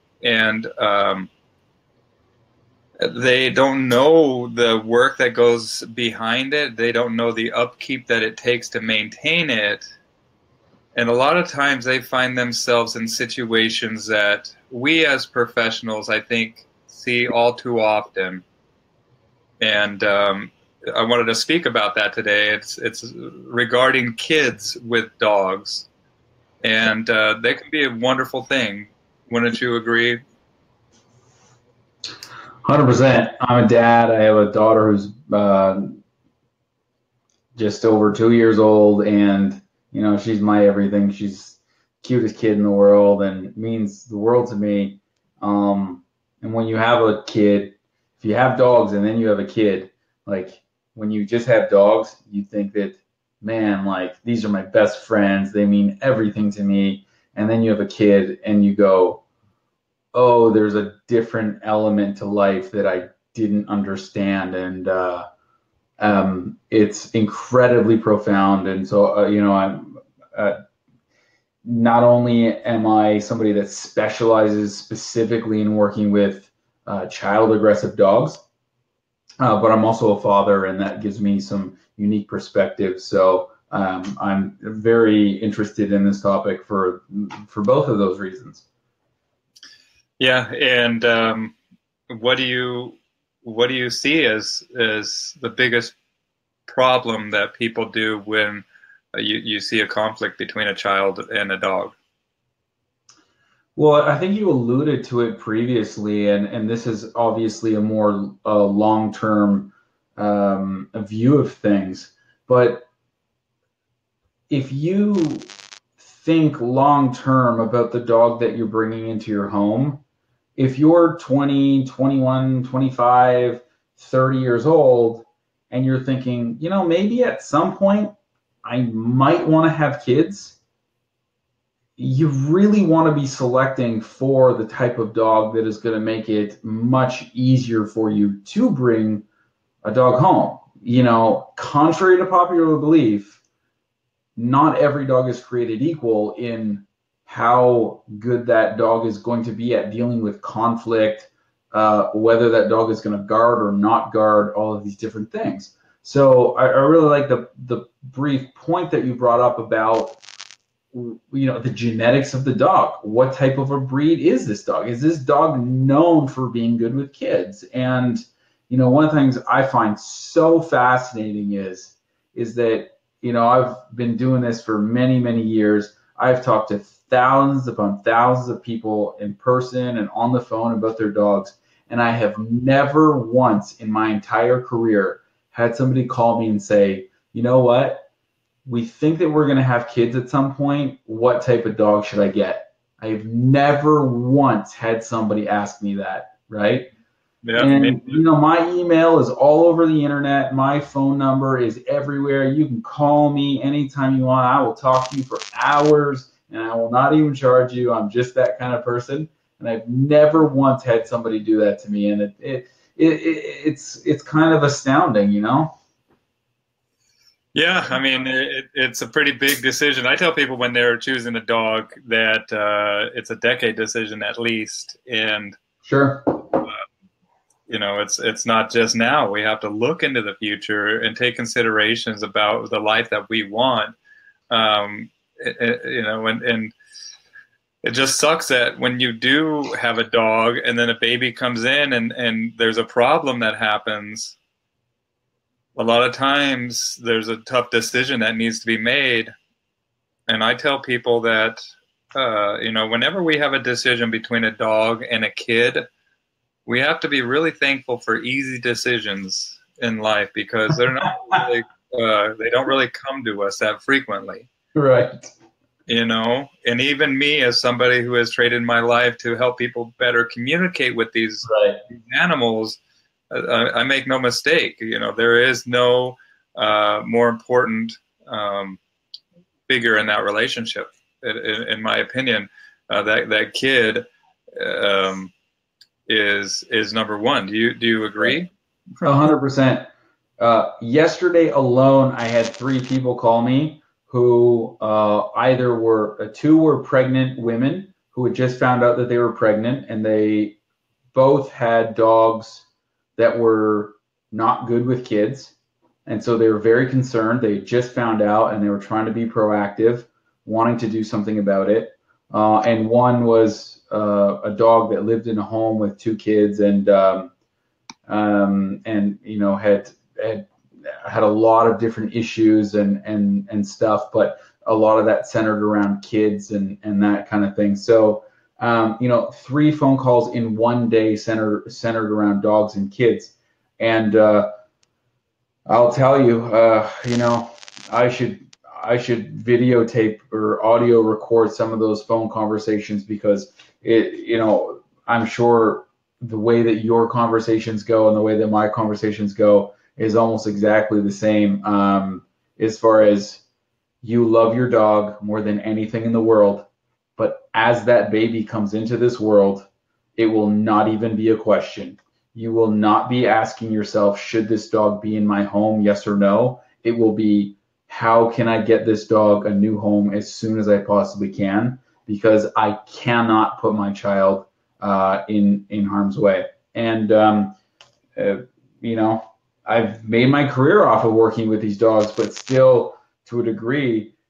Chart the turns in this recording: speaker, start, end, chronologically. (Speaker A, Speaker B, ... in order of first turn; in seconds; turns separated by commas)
Speaker A: 0.2-1.3, Speaker A: 3.0-9.8, Speaker A: 10.9-18.4, Speaker A: 19.6-25.9, Speaker A: 26.6-30.2, Speaker B: 32.6-36.0, Speaker B: 37.5-59.2, Speaker B: 60.1-65.2, Speaker B: 66.0-70.6, Speaker B: 71.6-78.4, Speaker B: 79.4-88.6, Speaker A: 90.2-91.5, Speaker A: 92.1-95.9, Speaker A: 96.7-101.9, Speaker B: 103.8-112.8, Speaker B: 114.5-115.5, Speaker B: 116.0-120.0, Speaker B: 120.6-130.6, Speaker B: 132.0-139.2, Speaker B: 139.8-143.4, Speaker B: 144.3-160.2, Speaker B: 160.9-188.1, Speaker B: 188.7-196.9, Speaker A: 197.4-198.2, Speaker B: 197.6-215.7, Speaker A: 217.5-225.5, Speaker B: 225.8-226.4, Speaker A: 227.7-233.9, Speaker A: 234.5-236.7, Speaker A: 237.8-244.3, Speaker A: 245.8-249.3, Speaker A: 250.3-251.6, Speaker A: 252.1-255.8, Speaker A: 256.6-264.5, Speaker B: 264.7-265.3, Speaker A: 265.9-272.8, Speaker B: 271.4-271.8, Speaker A: 273.3-278.8, Speaker A: 279.7-285.3, Speaker A: 286.1-288.5, Speaker B: 289.0-300.6, Speaker B: 301.1-302.6, Speaker B: 303.2-305.5, Speaker B: 306.1-317.3, Speaker B: 318.1-334.5, Speaker B: 335.7-353.4, Speaker B: 354.0-377.6, Speaker B: 378.1-384.1